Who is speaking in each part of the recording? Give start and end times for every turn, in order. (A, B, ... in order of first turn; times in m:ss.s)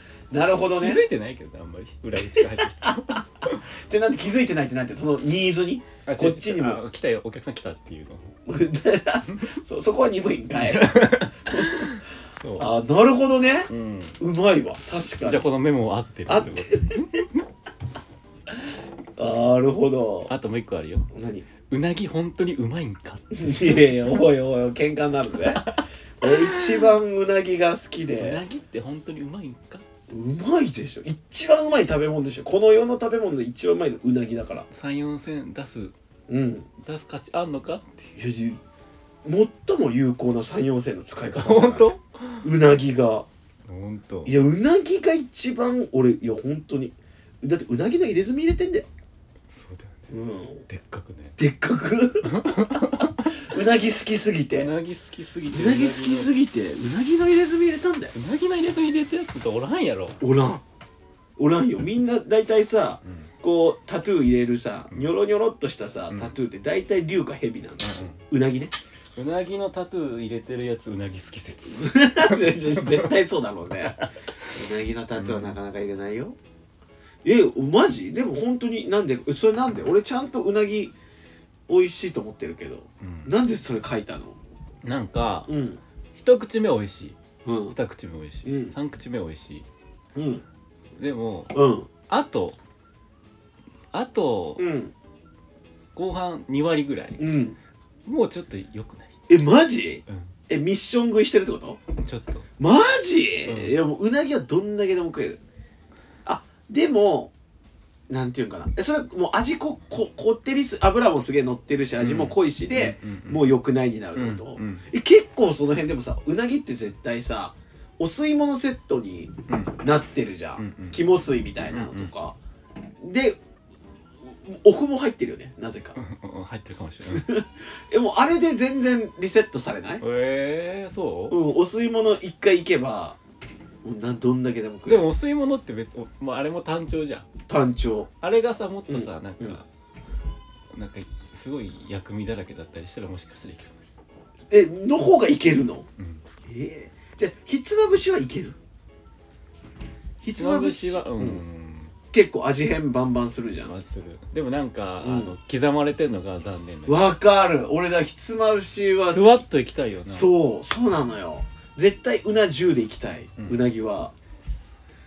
0:00.3-0:01.0 A
0:00.8-0:03.7 B
0:02.3-0:03.2 A
0:03.7-0:06.8 A
0:06.0-0:08.3 B
0:08.4-0:12.0 A
0:09.3-0:09.5 B
0:10.6-0:12.7 B
0:12.6-0:15.4 A
0:13.7-0:14.2 B
0:15.2-0:17.4 B
0:16.3-0:17.0 A
0:19.2-0:20.3 A
0:20.3-0:21.1 B
0:21.1-0:21.4 A
0:21.7-0:23.9 B
0:23.3-0:25.7 A
0:25.6-0:26.9 B
0:26.2-0:28.4 A
0:28.2-0:29.8 B
0:30.1-0:34.7 A
0:34.7-0:35.9 B
0:36.3-0:36.7 A
0:36.8-0:38.1 B
0:38.2-0:38.6 A
0:39.2-0:41.9 A
0:41.2-0:42.5 B
0:42.4-0:43.3 A
0:43.7-0:44.4 B
0:44.2-0:48.9 A
0:49.5-0:50.1 B
0:50.1-0:50.6 A
0:50.6-0:51.4 B
0:51.4-0:54.7 A
0:52.2-0:53.5 B
0:54.5-0:56.4 B
0:55.5-0:58.1 A
0:58.1-1:00.2 B
1:00.2-1:00.6 A
1:01.4-1:08.7 A
1:03.0-1:03.3 B
1:07.8-1:08.2 B
1:09.2-1:13.2 B
1:11.6-1:16.4 A
1:13.8-1:14.6 B
1:15.2-1:15.6 B
1:17.2-1:20.9 A
1:21.7-1:24.4 A
1:23.0-1:23.3 B
1:24.8-1:25.5 B
1:25.5-1:25.8 A
1:26.1-1:27.2 B
1:27.4-1:27.8 A
1:27.7-1:29.6 B
1:28.4-1:28.7 A
1:30.1-1:30.4 A
1:31.0-1:31.6 B
1:31.5-1:31.9 A
1:32.1-1:32.6 B
1:33.9-1:34.7 B
1:34.6-1:34.9 A
1:35.9-1:37.2 B
1:37.2-1:37.6 A
1:38.0-1:39.2 B
1:39.3-1:41.8 A
1:40.1-1:40.3 B
1:42.0-1:42.5 B
1:42.6-1:45.4 A
1:43.4-1:43.8 B
1:46.2-1:47.3 A
1:48.1-2:02.4 A
1:52.0-1:53.5 B
1:54.1-1:54.9 B
1:59.5-1:59.8 B
2:00.6-2:01.0 B
2:01.6-2:02.1 B
2:03.0-2:03.4 A
2:04.2-2:06.0 A
2:06.0-2:07.3 B
2:07.0-2:10.0 A
2:10.0-2:11.4 B
2:11.3-2:13.2 A
2:13.8-2:15.1 A
2:14.8-2:17.3 B
2:17.5-2:18.1 A
2:18.2-2:19.7 B
2:18.9-2:19.6 A
2:20.7-2:23.8 B
2:24.5-2:25.9 A
2:26.0-2:26.2 B
2:26.4-2:28.6 A
2:30.2-2:31.4 A
2:30.3-2:31.9 B
2:32.1-2:33.7 A
2:33.6-2:37.0 B
2:35.0-2:35.3 A
2:36.9-2:39.4 A
2:39.1-2:40.3 B
2:40.1-2:44.1 A
2:43.4-2:43.6 B